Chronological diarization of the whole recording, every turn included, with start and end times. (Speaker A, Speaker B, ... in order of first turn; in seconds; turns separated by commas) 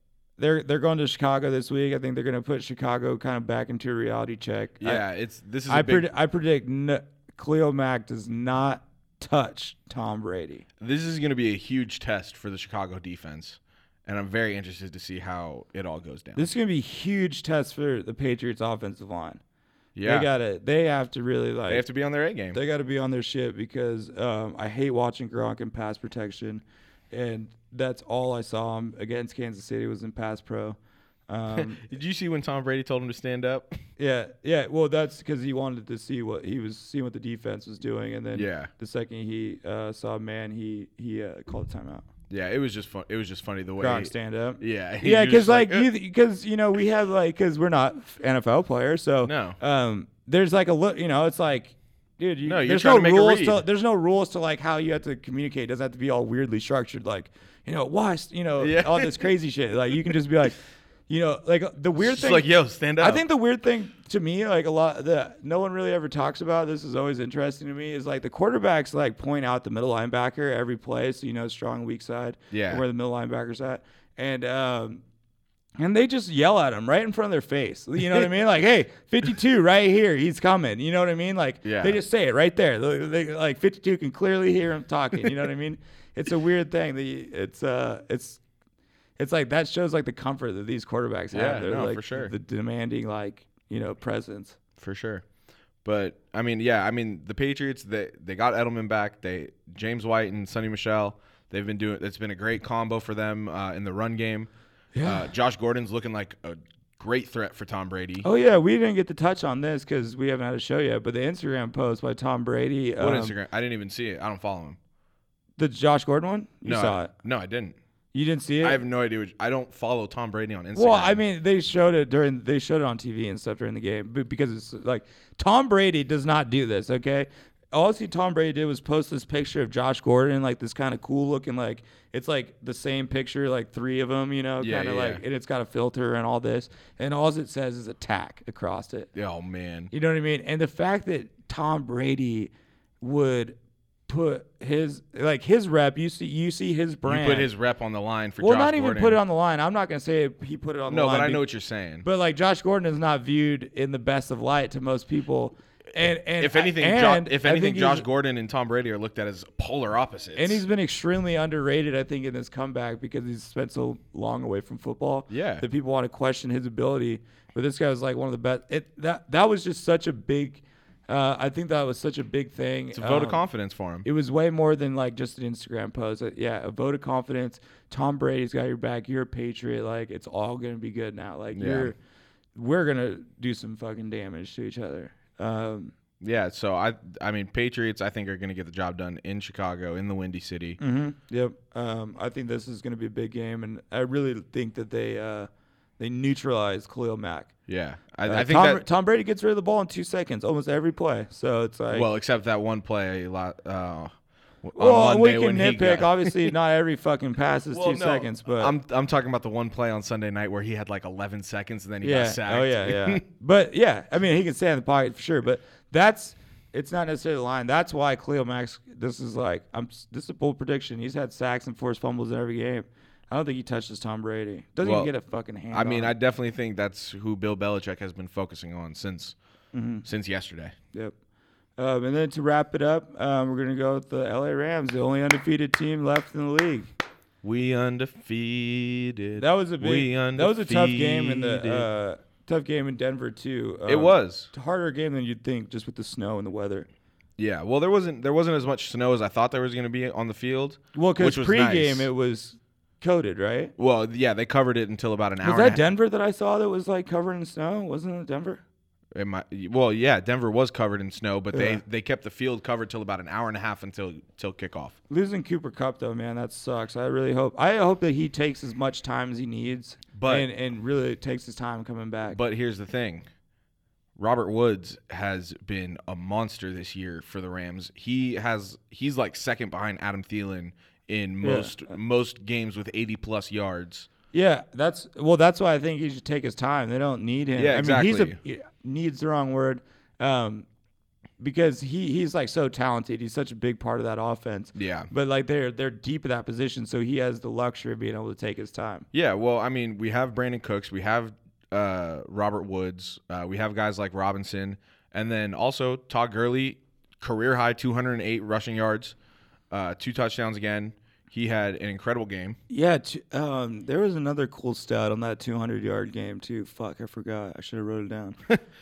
Speaker A: 0.4-5.0, Speaker B: 4.8-6.1, Speaker A: 5.7-10.6, Speaker B: 10.8-16.4, Speaker A: 16.4-19.4, Speaker B: 19.9-20.3, Speaker A: 20.0-21.9, Speaker B: 21.7-22.6, Speaker A: 22.5-30.8, Speaker A: 31.3-31.8, Speaker B: 31.5-33.8, Speaker A: 34.0-42.0, Speaker B: 38.3-38.7, Speaker B: 42.3-45.9, Speaker A: 43.8-75.0, Speaker B: 49.2-49.6, Speaker B: 52.4-53.6, Speaker B: 58.6-59.3, Speaker B: 62.0-63.2, Speaker B: 72.5-72.8, Speaker A: 75.8-88.4, Speaker B: 81.6-82.0, Speaker A: 89.2-94.6, Speaker B: 91.3-92.3, Speaker B: 94.8-95.2, Speaker B: 95.8-104.5, Speaker A: 104.9-105.3, Speaker B: 105.0-108.3, Speaker A: 108.2-113.3, Speaker B: 113.0-114.8, Speaker A: 115.6-117.1, Speaker B: 116.6-117.8, Speaker A: 118.1-118.8, Speaker B: 118.6-121.2, Speaker A: 120.7-139.1, Speaker B: 134.6-135.2, Speaker B: 139.1-139.9, Speaker A: 139.9-143.6, Speaker A: 144.1-147.5, Speaker B: 147.0-149.2, Speaker A: 148.4-151.4, Speaker B: 150.9-152.1, Speaker A: 152.0-158.1, Speaker B: 156.4-160.6, Speaker A: 160.3-173.4, Speaker B: 165.3-165.6, Speaker B: 172.9-174.1, Speaker A: 174.0-181.9, Speaker B: 181.5-181.9, Speaker A: 182.5-185.9, Speaker B: 186.2-190.8, Speaker A: 190.8-197.5, Speaker B: 197.7-198.8, Speaker A: 198.2-202.1, Speaker B: 201.9-204.1, Speaker B: 204.6-206.5, Speaker A: 204.8-208.7, Speaker B: 207.7-213.2, Speaker A: 212.0-226.1, Speaker B: 224.8-225.1, Speaker B: 225.7-229.3, Speaker A: 229.7-230.0, Speaker B: 230.0-230.7, Speaker A: 231.8-236.9, Speaker B: 237.4-241.9, Speaker A: 239.4-246.9, Speaker B: 243.9-244.5, Speaker B: 247.4-252.1, Speaker A: 250.9-253.7, Speaker B: 253.8-255.8, Speaker A: 255.4-258.6, Speaker B: 259.1-265.0, Speaker A: 261.5-261.8, Speaker A: 265.1-272.4, Speaker B: 270.1-270.5, Speaker B: 272.3-273.3, Speaker B: 274.2-284.1, Speaker A: 281.4-281.9, Speaker A: 284.3-290.7, Speaker B: 287.6-288.4, Speaker A: 291.4-299.1, Speaker B: 294.7-295.1, Speaker B: 299.1-309.1, Speaker B: 309.7-312.6, Speaker A: 312.7-318.4